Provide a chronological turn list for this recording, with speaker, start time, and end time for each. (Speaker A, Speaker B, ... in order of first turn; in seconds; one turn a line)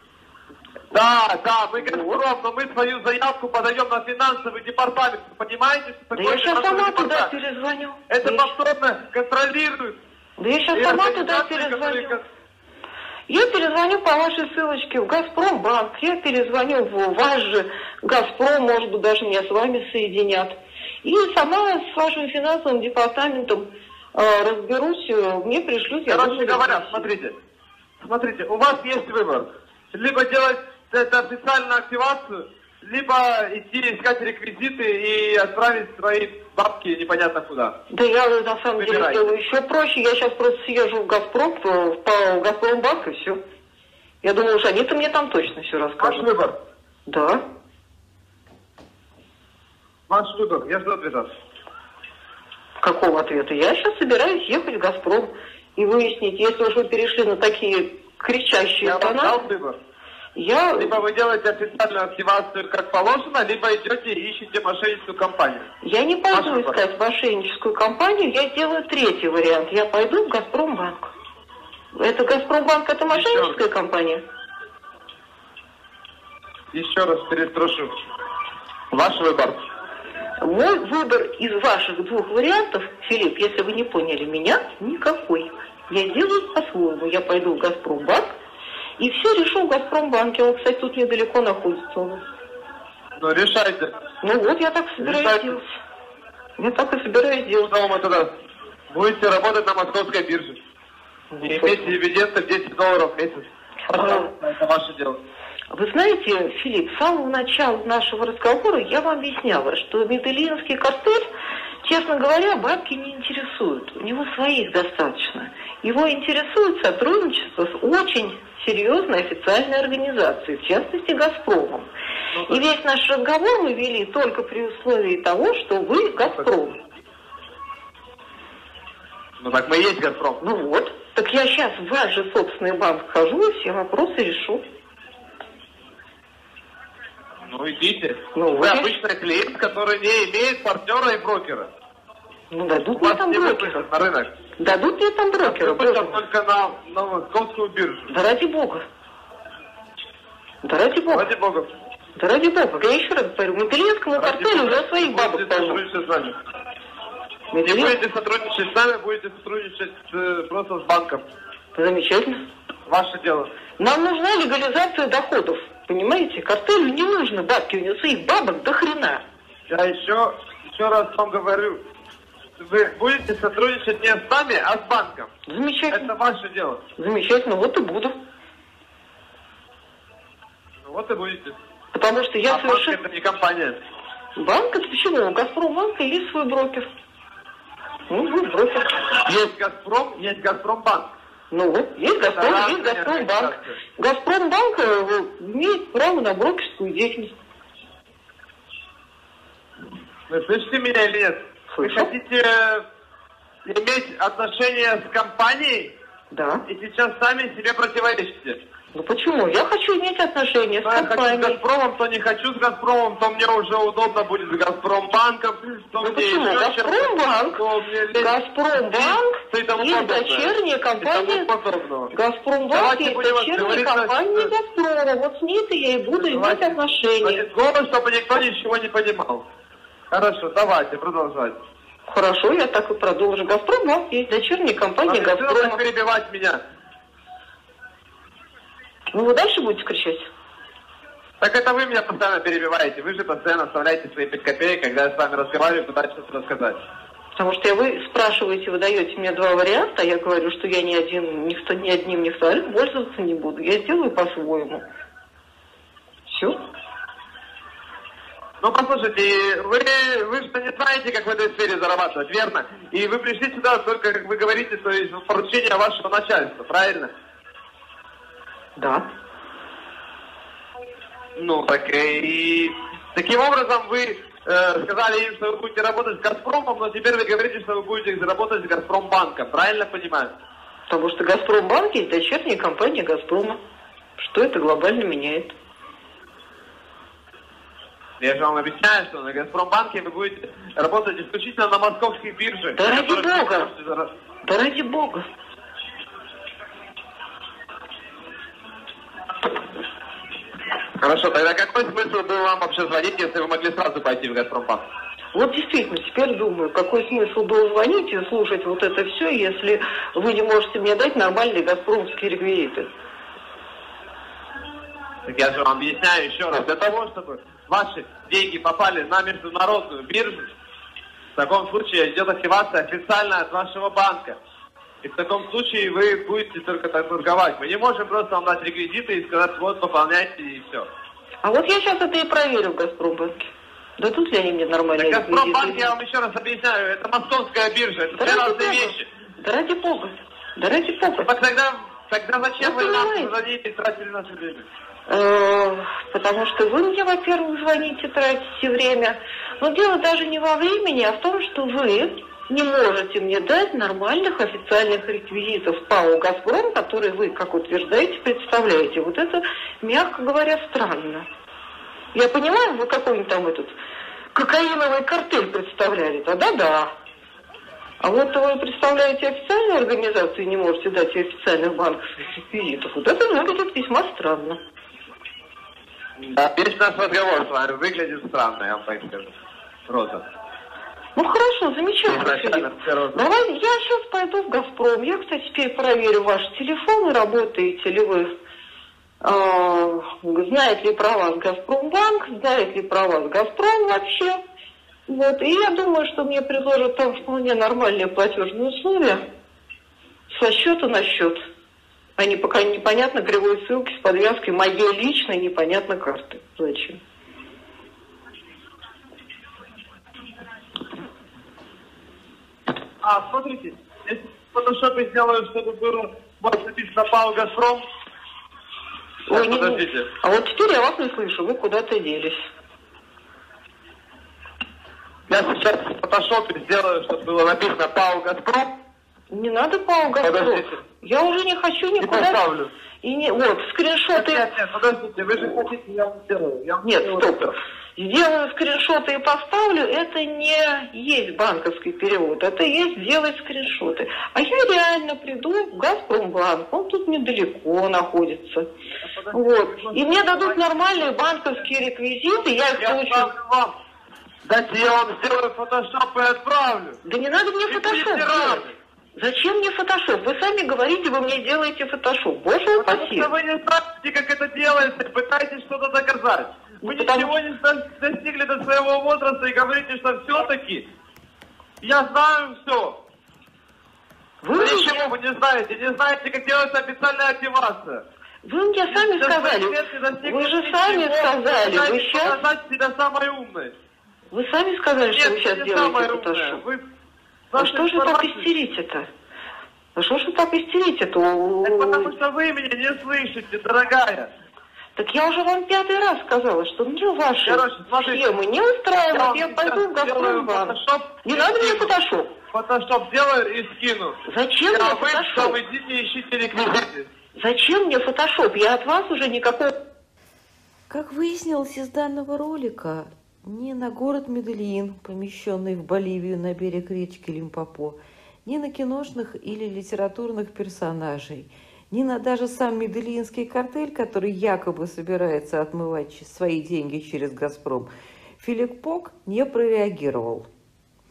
Speaker A: 0.9-7.3
Speaker B: 1.8-2.2
Speaker B: 6.1-8.5
Speaker A: 8.1-9.9
Speaker B: 10.4-12.2
Speaker A: 10.7-12.2
Speaker B: 13.3-27.1
Speaker A: 26.1-27.4
Speaker A: 28.0-37.7
Speaker B: 37.9-43.4
Speaker A: 38.8-39.4
Speaker B: 44.2-46.3
Speaker A: 46.0-46.5
Speaker B: 47.1-47.4
Speaker A: 50.1-51.3
Speaker B: 52.8-59.4
Speaker A: 58.8-59.8
Speaker B: 60.4-61.0
Speaker A: 60.8-65.7
Speaker B: 65.8-71.1
Speaker A: 66.3-66.8
Speaker B: 71.9-74.2
Speaker A: 73.1-73.6
Speaker A: 76.7-77.9
Speaker A: 78.9-79.6
Speaker B: 80.4-88.3
Speaker B: 89.0-92.2
Speaker A: 93.2-93.9
Speaker B: 94.2-95.6
Speaker A: 95.0-95.6
Speaker B: 96.6-97.7
Speaker A: 97.7-98.3
Speaker A: 98.9-100.6
Speaker B: 101.3-102.0
Speaker A: 101.4-105.2
Speaker B: 103.9-104.3
Speaker B: 105.7-111.3
Speaker B: 111.8-121.9
Speaker A: 122.3-122.6
Speaker B: 122.5-126.8
Speaker A: 126.2-126.5
Speaker A: 129.4-130.4
Speaker B: 130.4-134.6
Speaker A: 137.5-141.7
Speaker B: 138.3-138.9
Speaker B: 142.5-143.8
Speaker A: 142.9-144.3
Speaker B: 144.6-146.2
Speaker A: 145.4-148.1
Speaker B: 148.1-148.8
Speaker B: 150.6-151.3
Speaker A: 151.1-151.7
Speaker B: 152.2-155.8
Speaker A: 154.1-156.3
Speaker B: 157.5-157.9
Speaker A: 157.6-161.2
Speaker B: 161.7-162.4
Speaker A: 162.9-163.5
Speaker B: 163.8-169.2
Speaker A: 169.7-171.8
Speaker A: 172.6-175.3
Speaker B: 175.5-176.1
Speaker A: 175.9-176.8
Speaker B: 177.0-178.1
Speaker A: 180.8-181.6
Speaker B: 181.9-183.0
Speaker A: 182.5-183.8
Speaker B: 184.4-186.9
Speaker B: 188.1-188.9
Speaker A: 189.2-191.1
Speaker B: 191.5-197.3
Speaker A: 192.2-193.8
Speaker A: 200.3-202.8
Speaker B: 201.7-202.1
Speaker A: 203.7-205.9
Speaker B: 206.3-206.6
Speaker A: 206.7-208.6
Speaker B: 208.9-211.6
Speaker A: 210.8-222.1
Speaker B: 216.0-217.6
Speaker B: 218.1-221.5
Speaker B: 222.1-227.4
Speaker A: 222.7-224.5
Speaker A: 226.2-229.4
Speaker A: 230.1-231.6
Speaker B: 232.1-235.8
Speaker A: 235.0-236.6
Speaker B: 239.1-240.3
Speaker A: 241.4-246.8
Speaker B: 247.3-254.8
Speaker B: 256.3-256.6
Speaker A: 258.6-267.1
Speaker B: 268.8-269.1
Speaker A: 271.4-280.3
Speaker B: 280.9-283.6
Speaker B: 284.2-285.5
Speaker A: 288.2-294.1
Speaker B: 292.7-293.7
Speaker B: 294.4-295.2
Speaker A: 301.0-304.8
Speaker B: 305.3-312.9
Speaker A: 315.2-320.5
Speaker A: 321.4-324.4
Speaker A: 325.0-330.9
Speaker B: 331.4-335.9
Speaker A: 335.0-339.1
Speaker B: 338.1-341.3
Speaker A: 341.2-344.7
Speaker B: 342.6-343.3
Speaker B: 345.1-361.2
Speaker B: 362.1-363.7
Speaker B: 364.3-366.9
Speaker B: 368.0-374.6
Speaker A: 376.2-379.3
Speaker A: 379.9-380.2
Speaker B: 381.1-388.3
Speaker A: 382.1-383.2
Speaker B: 389.2-394.4
Speaker B: 395.1-399.2
Speaker B: 400.3-401.4
Speaker B: 402.2-407.0
Speaker A: 413.0-417.9
Speaker B: 419.3-422.4
Speaker A: 419.3-420.1
Speaker A: 425.3-428.7
Speaker B: 429.3-432.4
Speaker A: 430.2-430.8
Speaker A: 432.0-432.7
Speaker B: 433.0-434.4
Speaker A: 434.1-437.5
Speaker B: 436.8-448.7
Speaker A: 449.0-450.6
Speaker B: 449.3-453.3
Speaker A: 452.7-453.8
Speaker A: 454.4-457.0
Speaker B: 457.0-463.3
Speaker A: 457.7-458.8
Speaker A: 462.8-470.9
Speaker B: 466.8-467.4
Speaker A: 471.8-473.0
Speaker B: 474.4-475.1
Speaker A: 474.5-478.0
Speaker B: 478.4-482.4
Speaker A: 478.9-483.7
Speaker B: 484.3-486.6
Speaker A: 485.1-486.8
Speaker A: 487.5-488.5
Speaker B: 487.6-489.1
Speaker B: 489.9-492.1
Speaker A: 491.6-494.3
Speaker B: 494.9-502.3
Speaker A: 497.4-498.2
Speaker A: 499.1-501.9
Speaker A: 502.5-504.2
Speaker B: 504.2-505.6
Speaker A: 504.7-507.1
Speaker B: 507.4-509.7
Speaker C: 510.9-530.5